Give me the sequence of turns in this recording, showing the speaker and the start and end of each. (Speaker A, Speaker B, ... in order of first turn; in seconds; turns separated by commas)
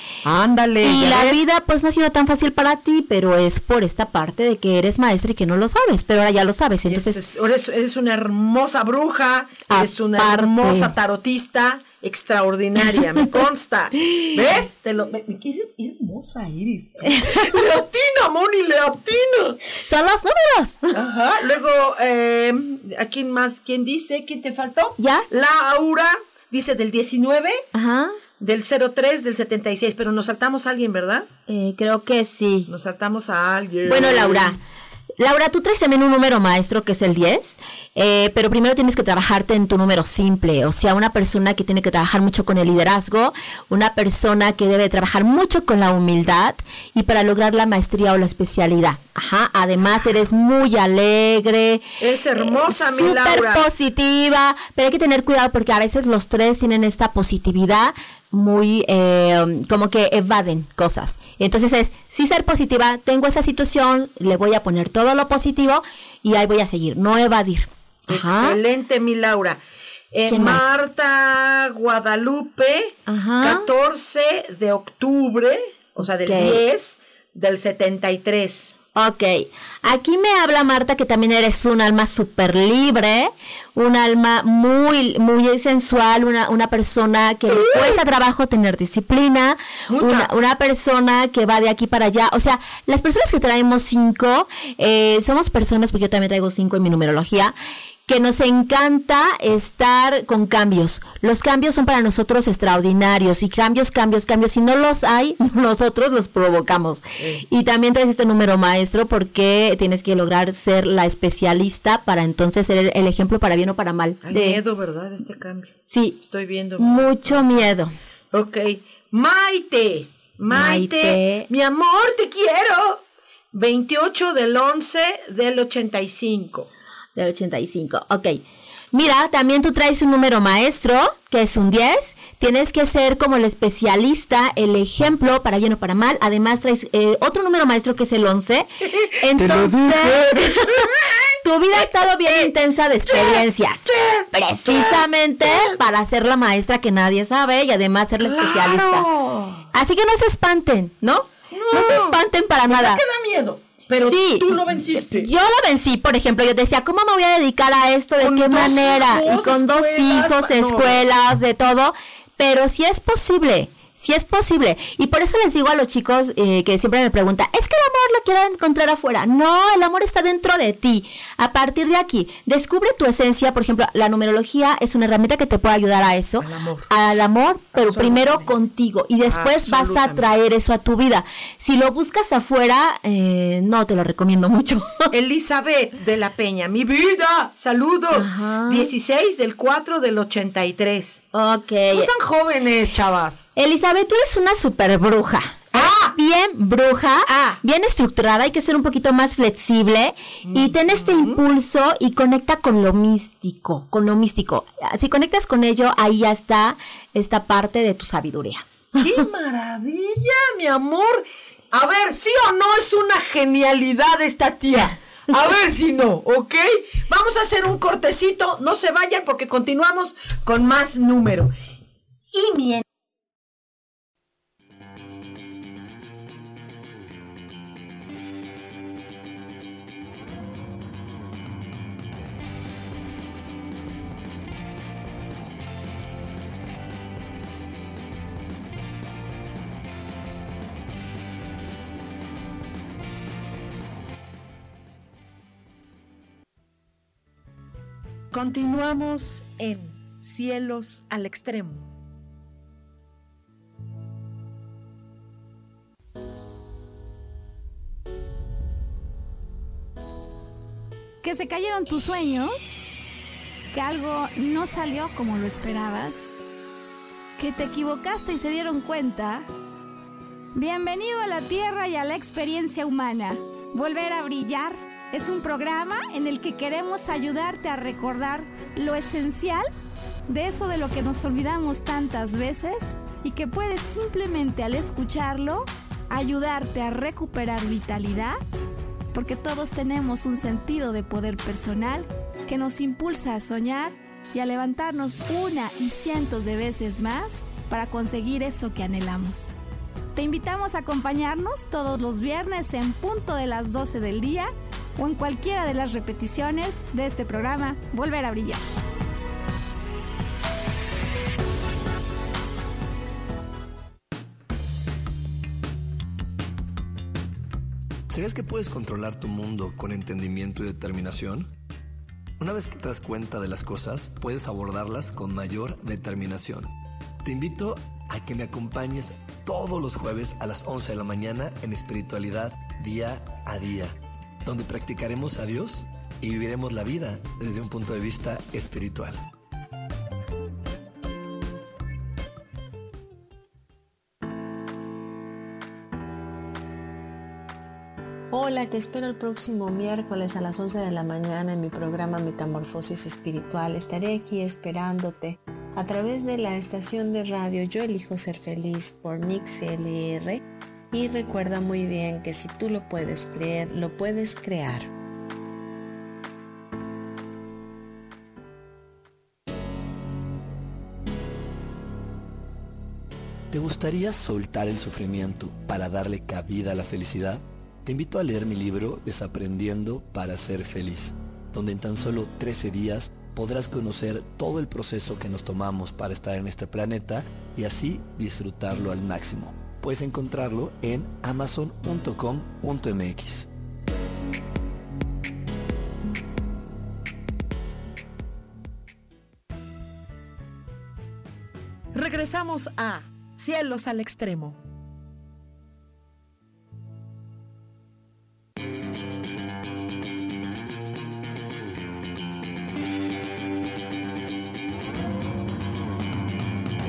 Speaker A: 0.2-1.4, Speaker B: 0.8-7.2, Speaker A: 6.9-19.6, Speaker B: 9.7-10.9, Speaker B: 17.1-17.6, Speaker B: 19.9-20.9, Speaker A: 20.9-27.7, Speaker B: 25.0-25.2, Speaker B: 27.7-28.2, Speaker A: 28.4-31.3, Speaker B: 31.5-32.7, Speaker A: 32.7-34.6, Speaker B: 33.9-34.6, Speaker B: 35.2-51.8, Speaker A: 52.0-53.6, Speaker B: 52.4-68.6, Speaker A: 68.1-69.6, Speaker A: 70.1-78.8, Speaker B: 70.3-70.8, Speaker B: 73.1-73.7, Speaker B: 76.2-76.6, Speaker B: 79.0-97.5, Speaker A: 89.9-90.3, Speaker B: 98.1-114.6, Speaker A: 107.2-107.4, Speaker A: 114.2-117.5, Speaker B: 115.9-116.2, Speaker B: 116.8-117.9, Speaker A: 118.3-123.0, Speaker B: 120.5-121.5, Speaker A: 123.5-126.7, Speaker B: 127.2-138.7, Speaker A: 138.9-142.5, Speaker B: 139.2-140.9, Speaker B: 141.4-149.1, Speaker A: 143.1-145.8, Speaker A: 148.2-149.7, Speaker B: 149.7-153.0, Speaker A: 151.5-155.3, Speaker B: 154.1-185.1, Speaker A: 158.2-161.0, Speaker A: 176.4-176.9, Speaker A: 177.8-178.5, Speaker A: 179.3-180.3, Speaker A: 185.1-191.2, Speaker B: 188.1-188.9, Speaker B: 191.3-192.1, Speaker A: 191.9-193.5, Speaker B: 193.6-208.7, Speaker A: 195.7-196.1, Speaker A: 197.3-197.6, Speaker A: 200.5-201.4, Speaker A: 208.9-221.5, Speaker A: 222.3-222.8, Speaker A: 248.3-251.9, Speaker C: 261.2-262.9, Speaker C: 263.7-266.4, Speaker C: 267.4-269.5, Speaker C: 270.6-279.7, Speaker C: 280.3-288.4, Speaker C: 289.1-299.5, Speaker C: 300.1-308.6, Speaker D: 318.1-321.5, Speaker D: 322.4-326.7, Speaker D: 327.2-339.2, Speaker E: 348.3-364.9, Speaker D: 373.5-393.5, Speaker A: 401.9-404.6